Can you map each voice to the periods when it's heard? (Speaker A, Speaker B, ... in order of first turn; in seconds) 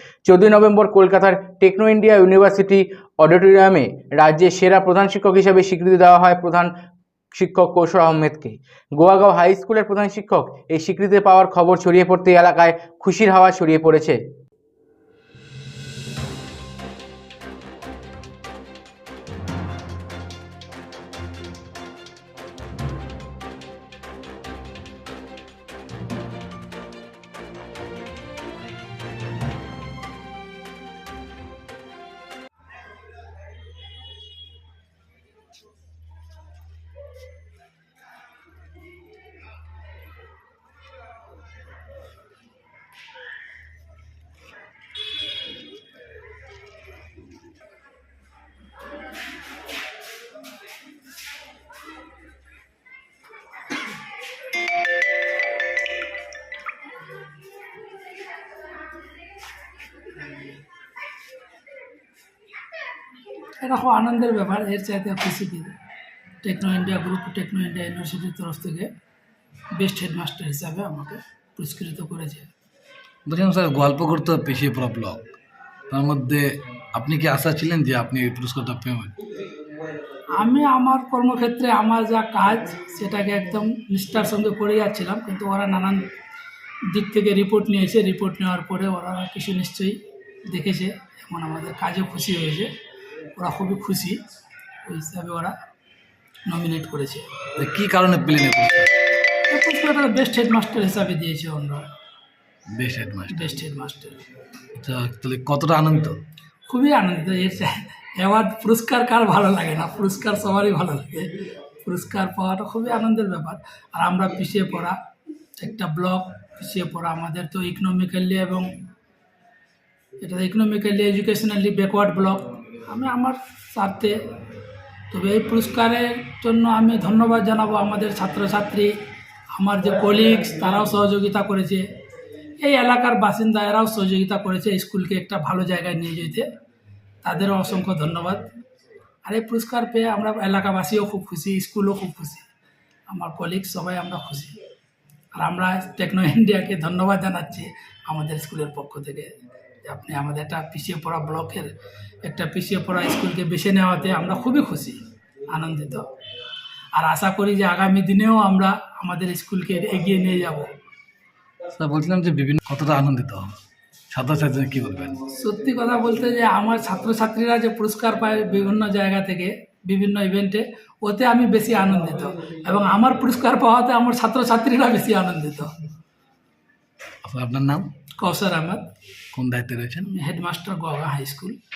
Speaker A: 0.2-6.7, 7.3-14.2
Speaker B: 63.6-65.8, 66.4-68.9, 69.7-72.5, 80.3-86.1, 86.9-92.7, 93.3-94.2, 94.8-95.6, 96.5-97.5, 99.5-101.9, 103.3-104.2, 106.7-115.0, 115.6-118.7, 120.2-124.2, 125.1-128.9, 129.6-131.9, 132.6-136.5, 137.2-138.5, 139.2-142.4, 143.1-144.6, 145.3-156.1, 156.9-160.7, 165.3-175.8, 178.2-178.9, 180.1-181.6
Speaker C: 73.3-75.3, 75.9-79.2, 97.5-98.9, 102.7-103.6, 104.8-106.2, 161.8-163.6, 164.1-165.2, 177.2-177.9, 179.3-180.1